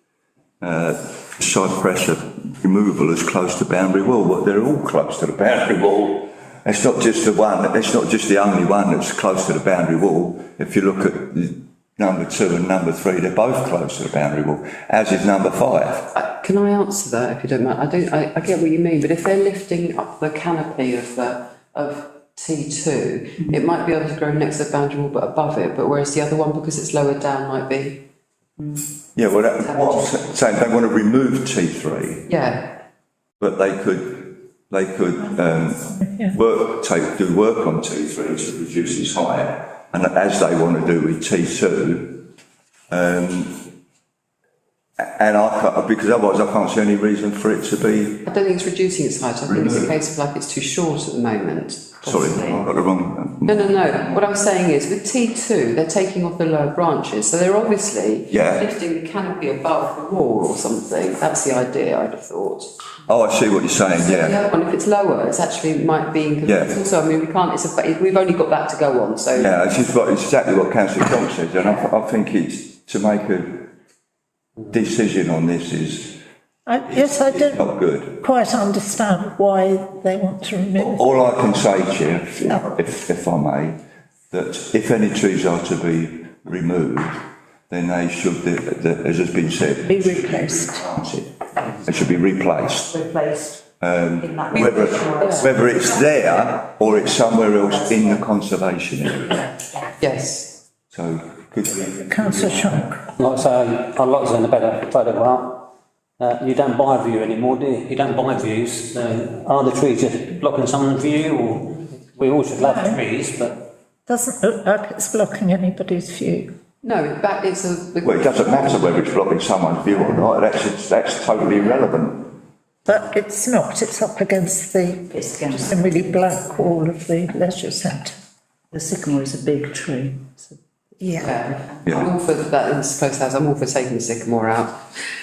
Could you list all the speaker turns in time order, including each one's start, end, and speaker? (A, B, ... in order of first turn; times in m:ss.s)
0:00.6-0:16.1 A
0:16.1-0:28.0 B
0:28.6-0:28.8 C
0:29.2-0:32.3 A
0:29.6-0:30.2 B
0:32.3-0:32.8 B
0:33.4-0:42.2 A
0:36.0-0:36.3 D
0:42.9-0:43.6 A
0:45.0-0:48.2 A
0:48.2-0:52.7 B
0:49.5-0:49.9 A
0:52.0-0:54.2 A
0:53.4-1:02.7 B
0:58.3-0:58.6 A
1:03.1-1:04.4 A
1:03.9-1:09.5 B
1:06.4-1:06.8 A
1:09.4-1:13.7 A
1:14.7-1:16.2 A
1:16.7-1:21.1 D
1:16.9-1:18.2 A
1:20.8-1:23.8 A
1:22.4-1:22.6 D
1:24.3-1:33.0 A
1:29.8-1:30.8 D
1:32.9-1:33.6 C
1:33.8-1:39.4 A
1:34.2-1:35.5 C
1:34.5-1:35.5 B
1:40.0-1:40.6 B
1:40.9-1:42.8 A
1:42.0-1:43.0 D
1:43.2-1:45.7 E
1:46.2-1:53.6 E
1:52.6-1:53.0 D
1:54.1-1:56.5 D
1:56.8-1:58.9 B
1:58.0-2:02.4 A
2:02.8-2:08.2 D
2:05.1-2:06.2 C
2:08.7-2:10.6 C
2:11.0-2:11.3 D
2:11.2-2:14.8 B